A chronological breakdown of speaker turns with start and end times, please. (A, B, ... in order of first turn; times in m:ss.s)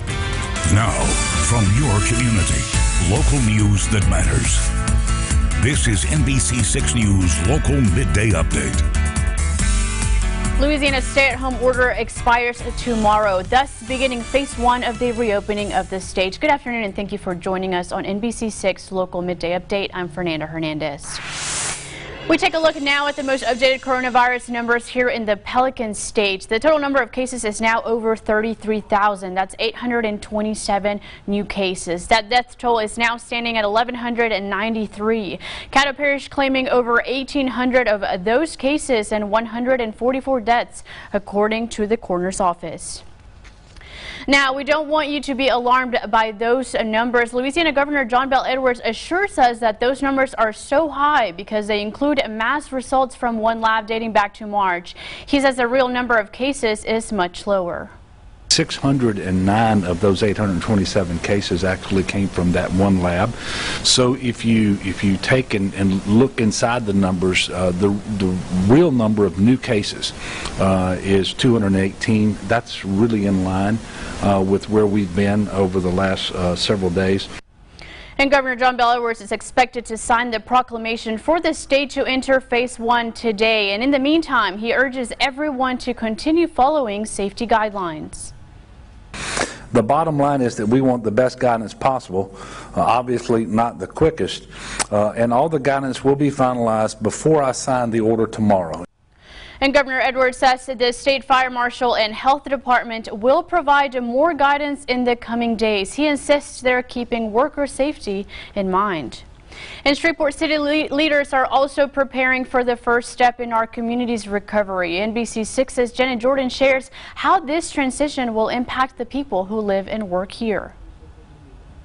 0:00.6-0:04.6 A
0:05.6-0:08.8 A
0:10.6-0:21.2 B
0:22.3-0:43.0 B
0:44.3-0:57.9 B
0:58.5-1:17.3 C
1:18.2-1:28.3 B
1:29.7-1:38.8 C
1:39.6-1:49.2 B
1:49.8-2:00.8 B